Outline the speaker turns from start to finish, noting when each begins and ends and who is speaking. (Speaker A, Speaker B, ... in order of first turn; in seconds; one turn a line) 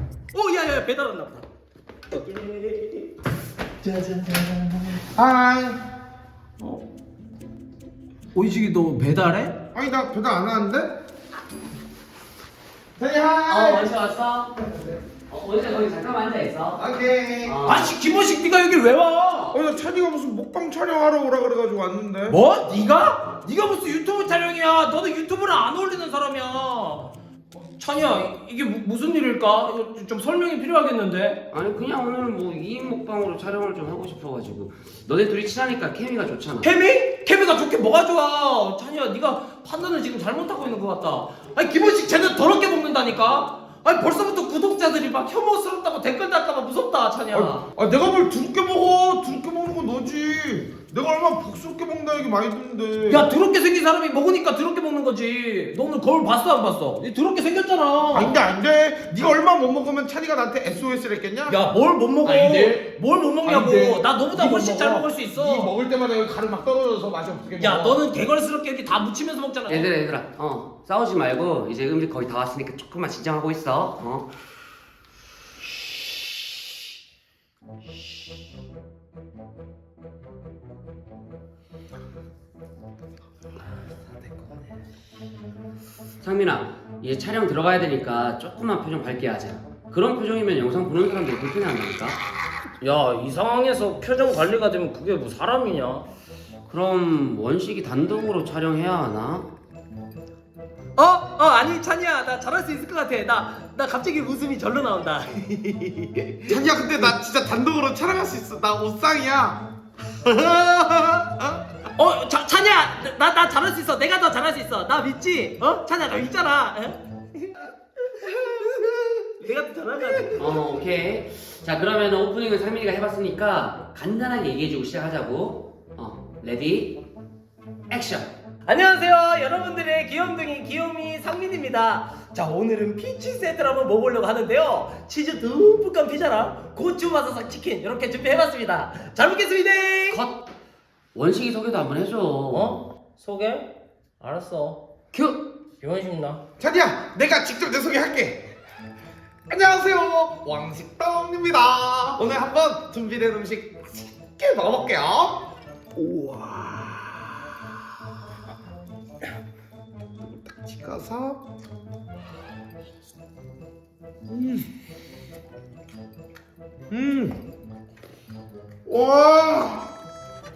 Speaker A: 0.3-1.5
Speaker A: 2.1-3.1
Speaker A: 3.8-5.0
Speaker B: 5.1-5.8
Speaker A: 8.3-9.6
Speaker B: 9.7-11.0
Speaker B: 13.0-13.9
Speaker C: 13.4-14.6
Speaker C: 15.3-16.9
Speaker B: 16.8-17.6
Speaker C: 17.4-17.9
Speaker A: 17.6-19.6
Speaker B: 19.5-22.4
Speaker A: 22.3-31.4
Speaker C: 31.5-36.7
Speaker A: 36.6-47.6
Speaker B: 47.3-53.3
Speaker A: 53.1-58.4
Speaker B: 58.1-61.6
Speaker A: 61.5-65.7
Speaker B: 62.2-62.9
Speaker B: 63.4-68.0
Speaker A: 67.6-69.9
Speaker C: 69.7-74.3
Speaker A: 83.8-84.7
Speaker C: 86.2-92.2
Speaker A: 92.8-96.0
Speaker C: 96.7-99.5
Speaker A: 101.0-106.5
Speaker B: 106.5-109.6
Speaker B: 110.2-111.7
Speaker A: 111.9-120.6
Speaker C: 120.3-127.0
Speaker C: 127.9-128.3
Speaker A: 128.7-140.2
Speaker C: 140.1-140.5
Speaker C: 141.1-142.8
Speaker A: 142.5-144.8
Speaker C: 145.1-145.4
Speaker A: 145.8-146.4
Speaker B: 146.6-148.4
Speaker B: 149.5-157.0
Speaker B: 160.4-161.4
Speaker B: 164.3-164.7
Speaker B: 166.9-167.4
Speaker B: 168.8-169.8